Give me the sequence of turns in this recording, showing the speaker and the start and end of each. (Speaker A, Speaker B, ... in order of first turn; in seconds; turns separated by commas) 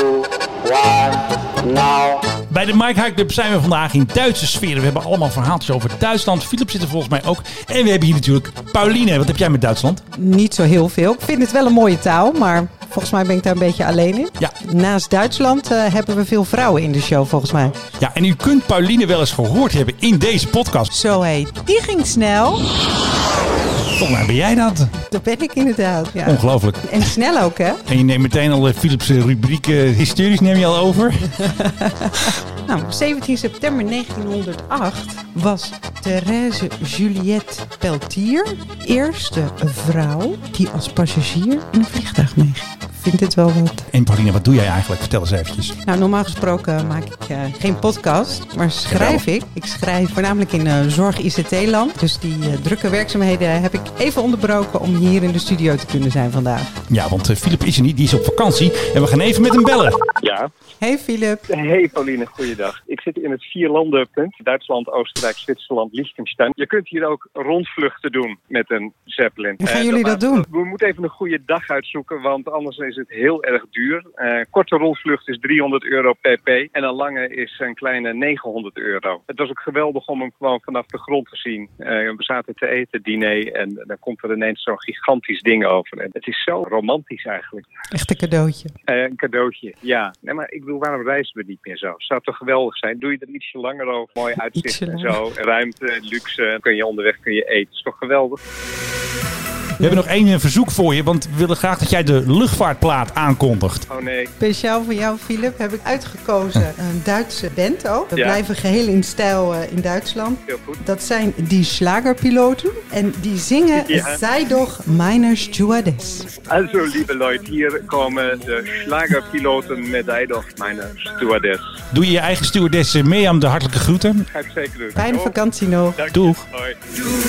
Speaker A: 2.5-10.0, Speaker B: 10.1-17.8, Speaker A: 18.0-20.9, Speaker B: 20.9-22.6, Speaker A: 24.0-24.9, Speaker B: 25.0-27.8, Speaker A: 26.2-27.1, Speaker A: 27.9-31.3, Speaker B: 31.4-43.9, Speaker A: 43.9-45.7, Speaker B: 45.8-56.7, Speaker A: 48.9-49.2, Speaker A: 56.9-60.0, Speaker B: 60.8-61.4, Speaker C: 61.5-87.7, Speaker B: 69.6-70.5, Speaker B: 87.9-88.7, Speaker C: 88.9-98.4, Speaker B: 94.6-95.1, Speaker A: 99.8-103.8, Speaker C: 103.9-104.3, Speaker B: 104.4-116.3, Speaker C: 110.5-110.8, Speaker C: 113.9-114.2, Speaker C: 116.5-121.7, Speaker A: 121.9-124.2, Speaker C: 124.3-125.3, Speaker B: 125.0-126.0, Speaker C: 126.0-126.8, Speaker A: 126.1-126.4